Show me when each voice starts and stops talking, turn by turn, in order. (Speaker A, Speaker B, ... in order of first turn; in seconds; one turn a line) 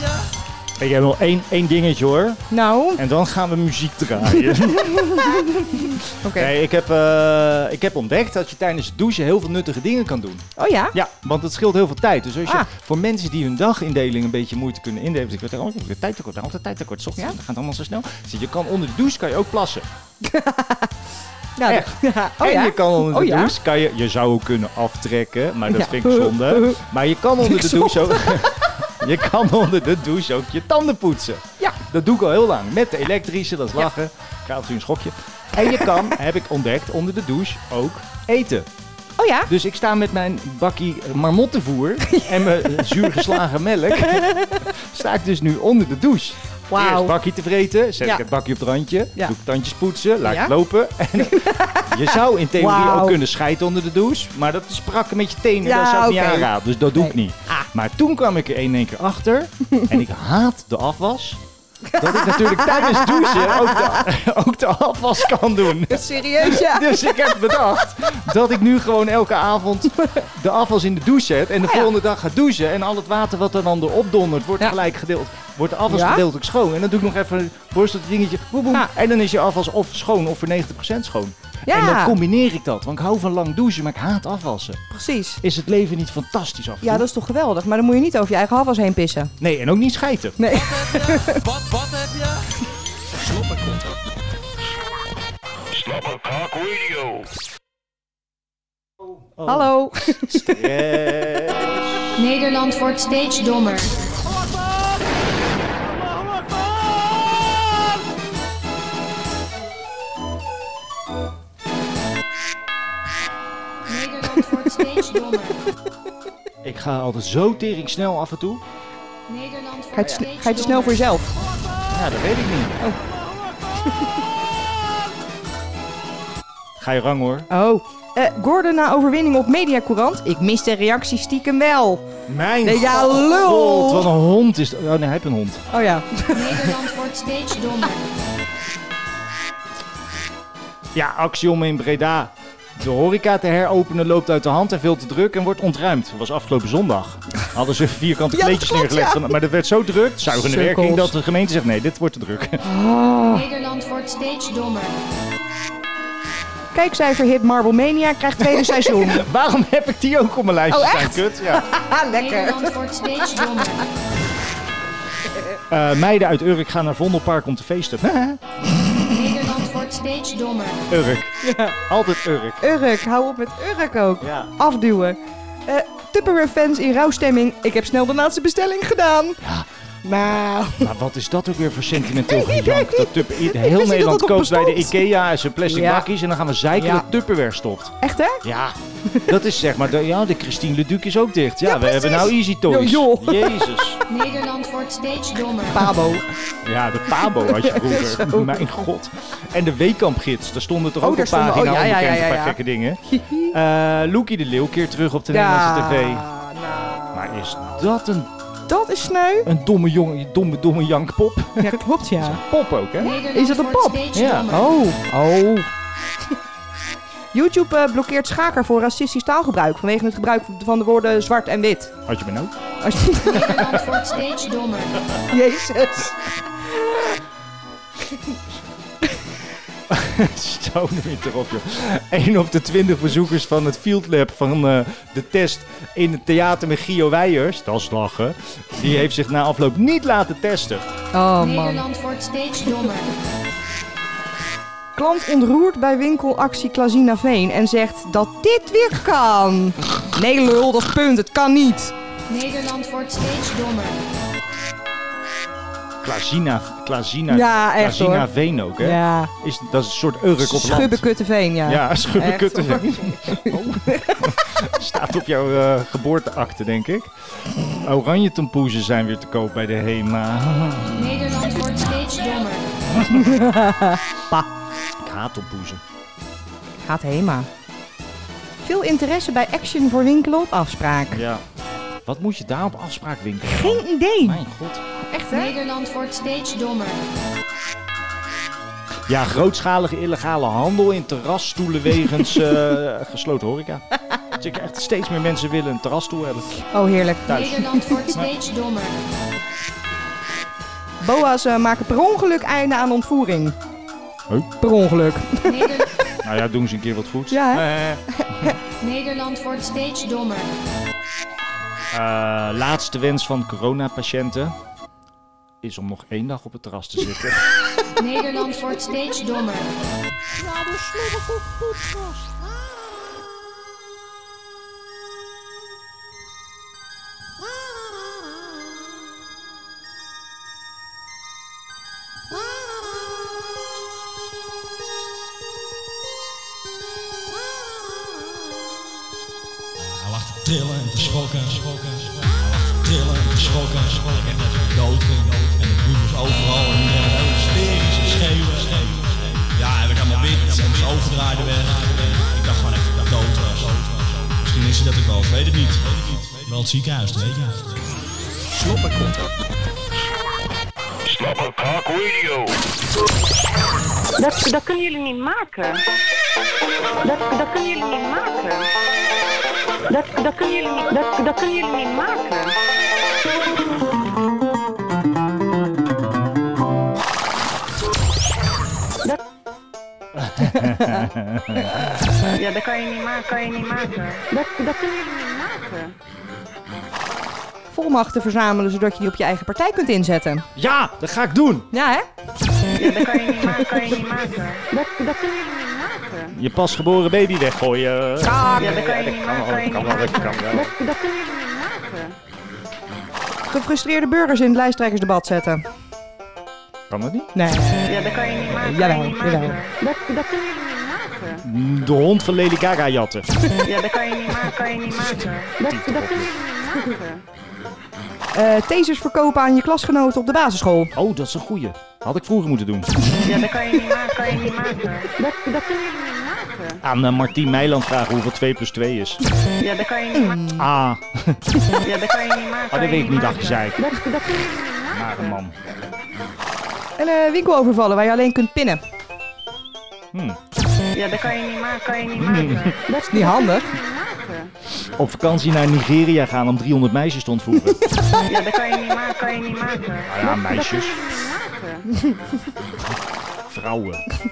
Speaker A: 0.8-2.5
Speaker B: 2.5-3.0
Speaker A: 3.0-19.9
Speaker B: 4.3-6.5
Speaker B: 10.6-10.9
Speaker B: 20.2-20.9
Speaker B: 21.6-23.5
Speaker A: 21.7-38.7
Speaker B: 25.7-26.8
Speaker B: 27.4-28.8
Speaker B: 35.6-36.0
Speaker B: 39.2-39.5
Speaker A: 39.5-61.4
Speaker B: 42.1-43.3
Speaker B: 44.0-44.7
Speaker B: 46.7-47.1
Speaker B: 50.2-50.5
Speaker B: 51.2-53.2
Speaker B: 55.6-57.7
Speaker B: 61.9-64.0
Speaker A: 62.0-84.8
Speaker B: 65.9-67.6
Speaker B: 70.0-70.2
Speaker B: 71.6-71.9
Speaker B: 75.9-76.2
Speaker B: 81.7-82.2
Speaker B: 84.9-85.4
Speaker A: 85.4-87.1
Speaker B: 86.8-89.3
Speaker A: 89.4-90.5
Speaker B: 90.4-91.5
Speaker A: 93.3-93.7
Speaker C: 95.8-97.2
Speaker A: 99.4-102.1
Speaker B: 99.5-100.6
Speaker D: 102.2-103.9
Speaker A: 104.4-104.9
Speaker A: 105.9-107.8
Speaker D: 113.9-115.6
Speaker A: 116.6-118.6
Speaker D: 119.3-121.0
Speaker B: 120.0-121.3
Speaker A: 121.9-122.8
Speaker A: 126.8-127.5
Speaker B: 127.5-132.1
Speaker A: 132.3-135.6
Speaker B: 132.6-134.1
Speaker B: 135.7-136.8
Speaker D: 136.3-138.0
Speaker A: 140.9-152.6
Speaker B: 148.3-149.2
Speaker B: 150.3-151.1
Speaker B: 152.6-153.5
Speaker D: 153.3-154.9
Speaker B: 156.7-159.2
Speaker A: 158.4-161.7
Speaker B: 160.7-163.8
Speaker D: 162.1-163.8
Speaker A: 165.7-168.4
Speaker D: 169.1-170.8
Speaker A: 170.9-172.7
Speaker B: 171.4-171.8
Speaker B: 172.6-179.4
Speaker A: 174.2-174.5
Speaker A: 179.4-179.7
Speaker B: 180.1-180.9
Speaker A: 180.8-194.0
Speaker B: 182.1-185.0
Speaker B: 185.7-186.1
Speaker B: 186.7-187.1
Speaker B: 188.0-188.4
Speaker B: 191.7-193.7
Speaker D: 194.1-195.9
Speaker B: 195.7-196.3
Speaker A: 196.6-206.3
Speaker B: 197.2-198.6
Speaker B: 201.0-203.6
Speaker B: 205.3-207.7
Speaker A: 207.1-208.3
Speaker B: 208.7-209.5
Speaker A: 209.4-213.2
Speaker B: 211.6-212.4
Speaker B: 213.0-215.7
Speaker D: 213.0-214.5
Speaker A: 214.1-214.6
Speaker B: 217.3-221.9
Speaker A: 222.1-222.5
Speaker B: 222.8-223.7
Speaker D: 223.3-225.0
Speaker A: 223.3-223.8
Speaker B: 225.3-226.2
Speaker B: 226.8-227.1
Speaker A: 229.9-240.9
Speaker B: 241.1-241.9
Speaker D: 241.4-243.1
Speaker B: 245.0-251.9
Speaker D: 252.3-254.0
Speaker A: 256.0-261.1
Speaker B: 257.3-259.3
Speaker B: 260.4-264.3
Speaker A: 261.6-267.1
Speaker A: 267.7-271.2
Speaker D: 270.9-272.7
Speaker A: 272.9-273.6
Speaker B: 273.0-274.5
Speaker A: 275.0-275.8
Speaker B: 276.8-277.5
Speaker B: 278.6-281.2
Speaker A: 281.1-281.4
Speaker A: 282.1-284.8
Speaker B: 283.5-284.4
Speaker B: 285.0-285.6
Speaker D: 285.3-287.0
Speaker A: 289.1-296.6
Speaker B: 296.7-298.1
Speaker A: 297.3-298.3
Speaker D: 297.3-298.9
Speaker B: 301.0-303.6
Speaker B: 304.6-305.8
Speaker D: 305.5-305.9
Speaker A: 306.2-308.6
Speaker B: 307.3-308.6
Speaker D: 308.8-310.5
Speaker A: 311.9-314.6
Speaker A: 315.6-317.5
Speaker D: 318.0-319.7
Speaker B: 320.5-321.9
Speaker A: 340.1-341.9
Speaker C: 341.8-345.6
Speaker A: 342.9-349.0
Speaker C: 346.5-347.2
Speaker C: 348.1-353.9
Speaker A: 349.6-351.8
Speaker A: 354.4-357.6
Speaker C: 355.9-357.5
Speaker C: 358.6-359.2
Speaker C: 361.1-362.5
Speaker E: 364.2-365.8
Speaker E: 367.0-368.7
Speaker E: 369.9-372.5
Speaker A: 380.1-381.9
Speaker B: 380.4-381.0
Speaker E: 382.3-385.9
Speaker B: 387.7-390.5
Speaker A: 390.6-391.7
Speaker B: 391.7-392.1
Speaker E: 392.7-396.3
Speaker A: 396.3-400.7
Speaker B: 398.2-398.9
Speaker E: 398.6-402.2
Speaker B: 403.5-405.6
Speaker A: 406.9-407.3
Speaker B: 407.4-409.6
Speaker E: 407.8-411.4
Speaker A: 411.4-413.5
Speaker E: 413.6-417.2
Speaker A: 415.7-416.3
Speaker B: 418.3-420.9
Speaker A: 420.9-423.1
Speaker E: 423.2-426.8
Speaker A: 426.8-429.2
Speaker E: 429.6-430.5
Speaker B: 430.1-430.7
Speaker A: 430.6-431.6
Speaker E: 431.8-435.4
Speaker A: 432.7-433.9
Speaker A: 434.9-435.6
Speaker B: 437.0-438.8
Speaker A: 440.1-440.4
Speaker E: 440.9-444.5
Speaker A: 442.2-442.8
Speaker B: 443.1-443.7
Speaker A: 445.0-447.8
Speaker E: 448.2-451.9
Speaker A: 450.1-451.0
Speaker A: 453.5-454.0